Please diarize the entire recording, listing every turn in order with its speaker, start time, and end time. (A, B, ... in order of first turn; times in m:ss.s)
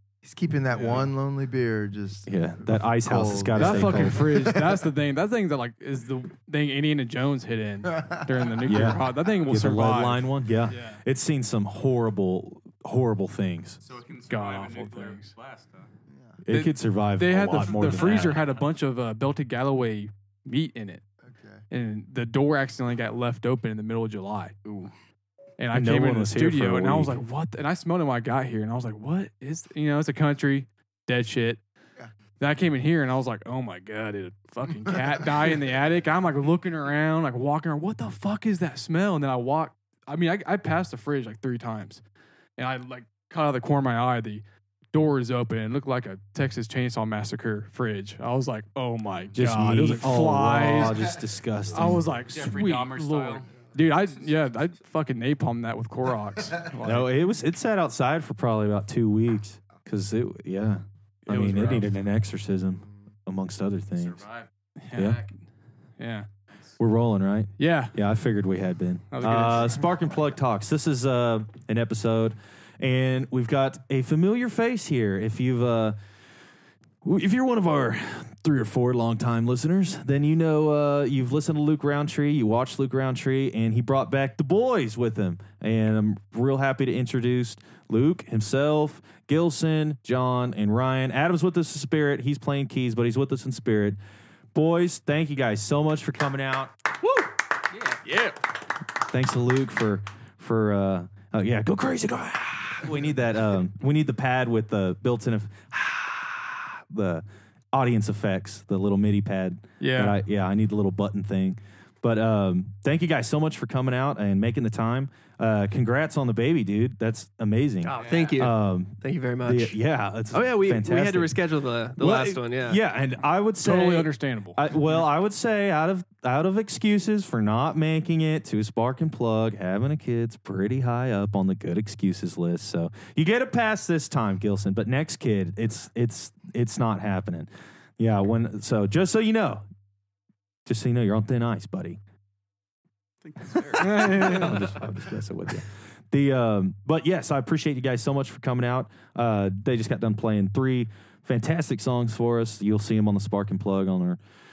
0:00.2-0:04.8 A
0:00.7-0:01.1 B
0:02.3-0:04.4 C
0:03.6-0:11.0 B
0:08.6-0:13.8 C
0:13.9-0:15.9 D
0:14.1-0:15.3 B
0:16.1-0:16.4 A
0:16.4-0:18.4 C
0:16.5-0:21.0 B
0:21.2-0:21.6 A
0:21.7-0:24.6 B
0:24.6-0:24.9 D
0:25.6-0:31.6 B
0:25.7-0:27.2 C
0:32.4-0:42.0 B
0:42.6-0:51.2 B
0:49.3-0:52.2 C
0:51.7-0:57.1 B
0:52.3-0:53.5 D
0:56.8-1:04.3 C
1:01.3-1:01.9 B
1:04.0-1:05.2 D
1:04.8-1:05.3 B
1:05.0-1:05.2 C
1:06.0-1:06.3 B
1:06.8-1:16.0 C
1:07.6-1:08.0 B
1:09.1-1:09.8 B
1:17.0-1:34.0 C
1:34.5-1:37.2 C
1:37.8-1:38.3 D
1:38.9-2:01.4 C
1:49.8-1:50.2 B
1:57.9-2:02.8 E
1:58.0-1:58.3 D
2:02.0-2:19.6 C
2:03.6-2:05.0 B
2:20.7-2:22.0 C
2:23.2-2:24.6 D
2:23.8-2:34.2 C
2:23.8-2:24.4 B